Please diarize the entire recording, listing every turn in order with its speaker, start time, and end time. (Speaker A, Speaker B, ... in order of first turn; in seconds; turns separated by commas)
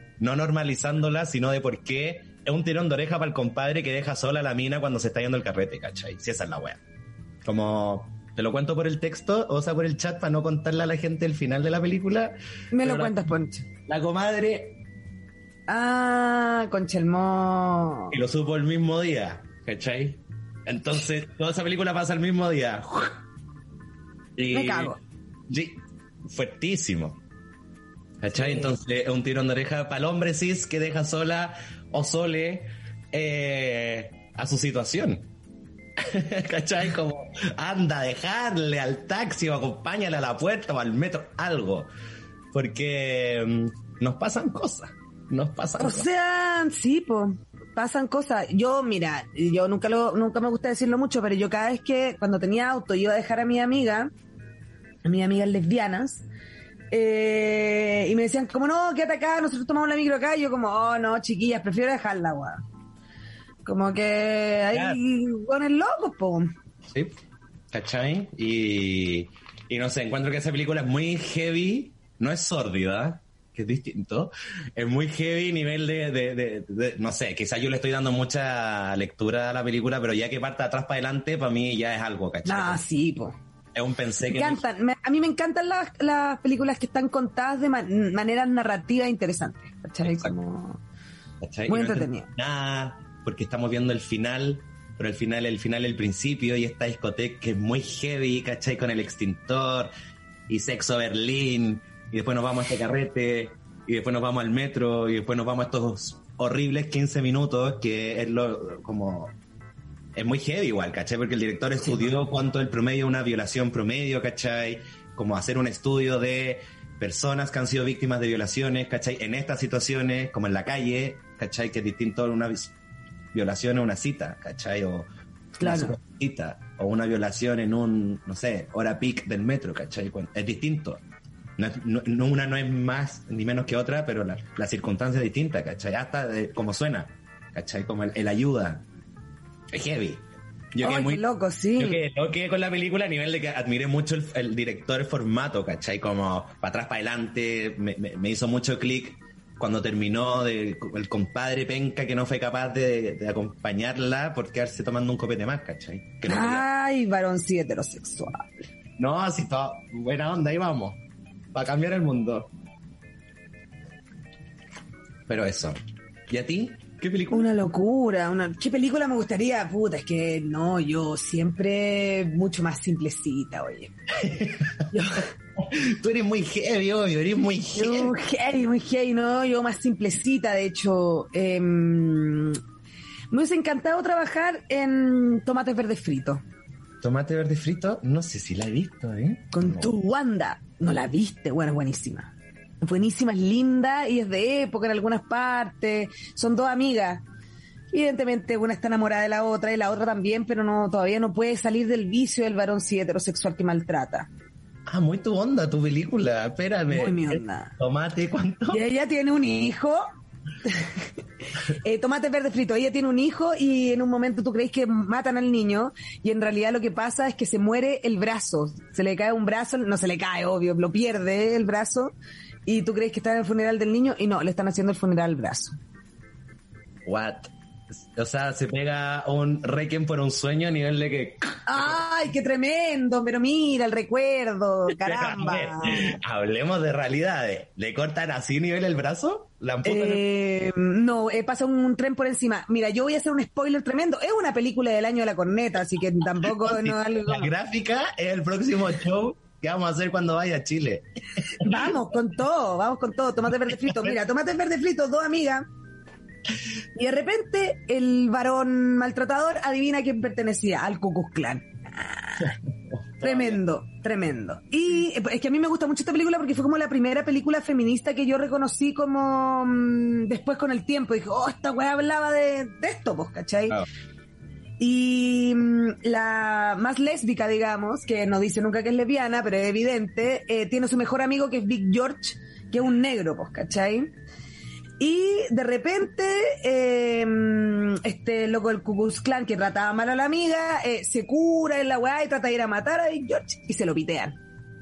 Speaker A: 0.2-6.8, Speaker A: 7.4-13.2, Speaker B: 12.7-13.7, Speaker A: 13.9-14.8, Speaker B: 15.7-18.1, Speaker A: 18.1-23.2, Speaker A: 24.4-24.9, Speaker B: 24.5-25.0, Speaker A: 25.5-27.2, Speaker A: 28.2-35.3, Speaker B: 28.3-28.7, Speaker A: 36.0-41.9, Speaker A: 42.5-46.1, Speaker B: 45.8-54.1, Speaker B: 55.0-56.2, Speaker B: 56.9-62.6, Speaker B: 63.6-66.5, Speaker A: 64.7-65.0, Speaker A: 66.9-67.1, Speaker A: 67.7-82.8, Speaker B: 82.4-83.3, Speaker A: 83.7-84.6, Speaker B: 84.3-90.8, Speaker A: 90.0-90.3, Speaker A: 91.4-99.9, Speaker B: 91.7-92.3, Speaker A: 100.5-109.3, Speaker A: 110.1-122.7, Speaker A: 123.3-125.1, Speaker B: 125.6-126.0, Speaker A: 125.6-131.0, Speaker A: 131.6-138.8, Speaker A: 139.7-141.2, Speaker B: 140.8-142.0, Speaker A: 141.8-156.6, Speaker B: 156.2-158.7, Speaker A: 159.0-161.0, Speaker A: 161.5-162.5, Speaker A: 165.3-165.8, Speaker A: 166.3-167.5, Speaker B: 167.3-173.9, Speaker A: 174.2-174.9, Speaker B: 174.9-175.3, Speaker A: 175.6-178.1, Speaker B: 177.7-182.6, Speaker B: 183.3-186.4, Speaker A: 187.0-189.9, Speaker B: 189.5-197.2, Speaker B: 197.9-204.3, Speaker A: 204.8-208.8, Speaker B: 206.9-207.8, Speaker B: 208.7-210.1, Speaker B: 210.6-211.1, Speaker B: 211.6-222.1, Speaker B: 222.7-225.8, Speaker A: 227.1-232.0, Speaker B: 231.7-236.2, Speaker A: 234.9-240.2, Speaker B: 239.8-247.5, Speaker A: 246.4-251.9, Speaker B: 251.6-255.7, Speaker B: 256.9-262.6, Speaker A: 262.9-263.6, Speaker B: 263.2-273.8, Speaker B: 274.8-284.1, Speaker B: 285.0-294.4